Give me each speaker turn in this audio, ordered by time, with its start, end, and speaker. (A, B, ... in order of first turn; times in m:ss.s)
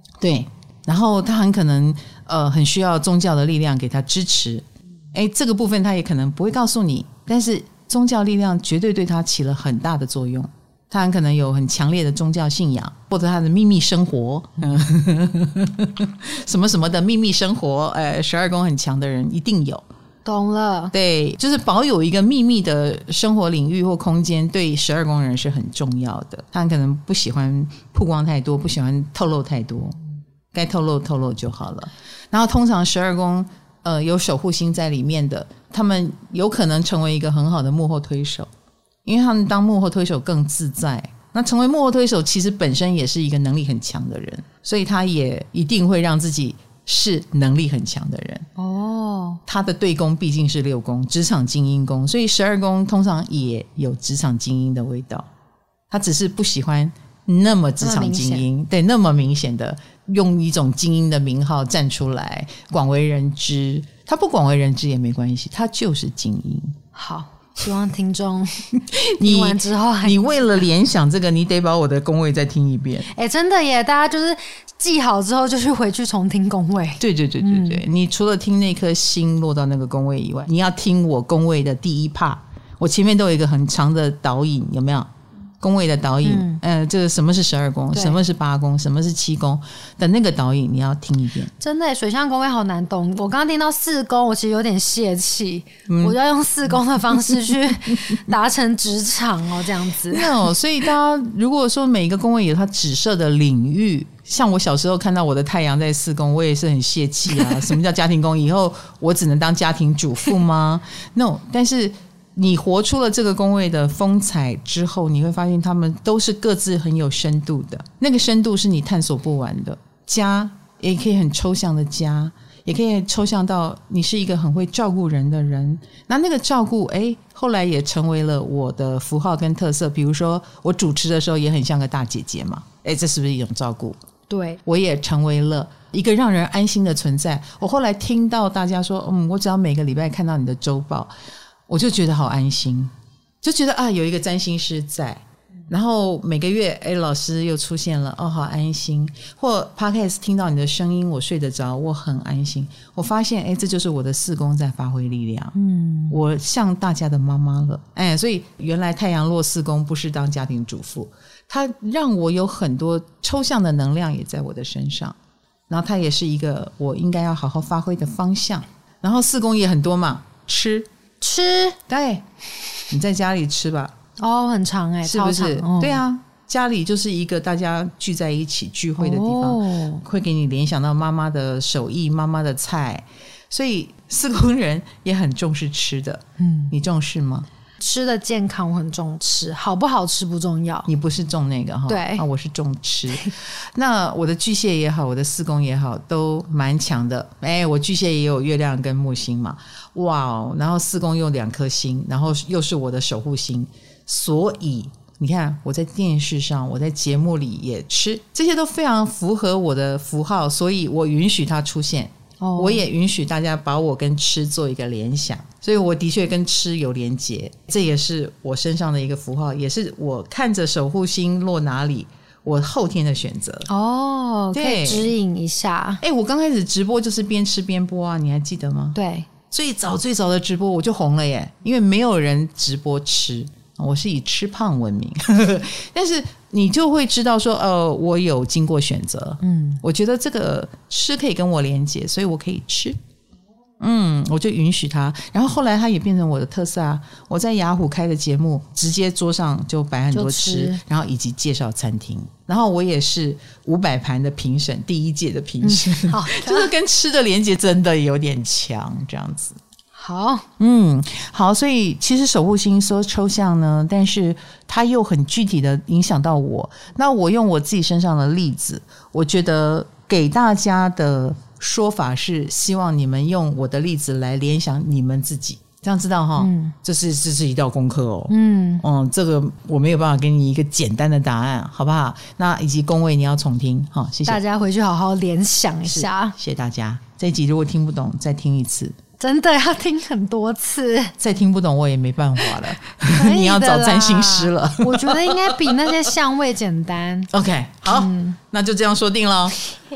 0:00.2-0:19.8 A
0:20.2-0:20.9 B
0:20.9-0:30.0 A
0:30.5-0:38.5 A
0:39.0-0:48.5 A
0:48.6-0:49.4 B
0:49.5-0:55.3 A
0:55.9-1:06.8 A
0:57.8-0:58.5 B
1:06.9-1:08.6 B
1:08.8-1:13.1 A
1:09.2-1:10.4 B
1:13.1-1:17.8 B
1:17.0-1:25.1 A
1:25.6-1:31.5 A
1:26.2-1:26.6 B
1:27.9-1:28.2 B
1:31.6-1:40.4 B
1:35.9-1:36.2 A
1:40.1-2:14.0 A
2:14.3-2:14.6 B
2:14.6-2:21.1 A
2:21.7-2:35.6 A
2:35.6-2:36.2 B
2:36.1-2:45.2 A
2:45.7-2:50.9 A
2:51.2-2:51.8 B
2:51.9-2:52.2 A
2:52.9-2:54.0 A
2:54.2-2:56.0 B
2:55.0-3:07.5 A
2:59.0-3:00.0 B
3:06.4-3:06.7 B
3:07.8-3:10.9 B
3:10.9-3:43.7 A
3:11.9-3:12.3 B
3:32.4-3:32.9 B
3:43.7-3:46.0 B
3:44.5-3:45.1 A
3:46.0-3:49.0 A
3:49.0-3:49.3 B
3:49.5-4:03.0 A
3:59.4-3:59.8 B
4:03.8-4:19.6 A
4:10.1-4:10.8 B
4:15.6-4:16.7 B
4:20.0-4:20.5 B
4:20.6-4:44.4 A
4:36.4-4:36.8 B
4:38.3-4:38.8 B
4:44.3-4:46.4 B
4:45.9-4:49.0 A
4:49.2-4:51.1 B
4:51.2-4:55.8 A
4:53.0-4:57.3 B
4:57.3-4:59.7 A
4:57.9-4:58.4 B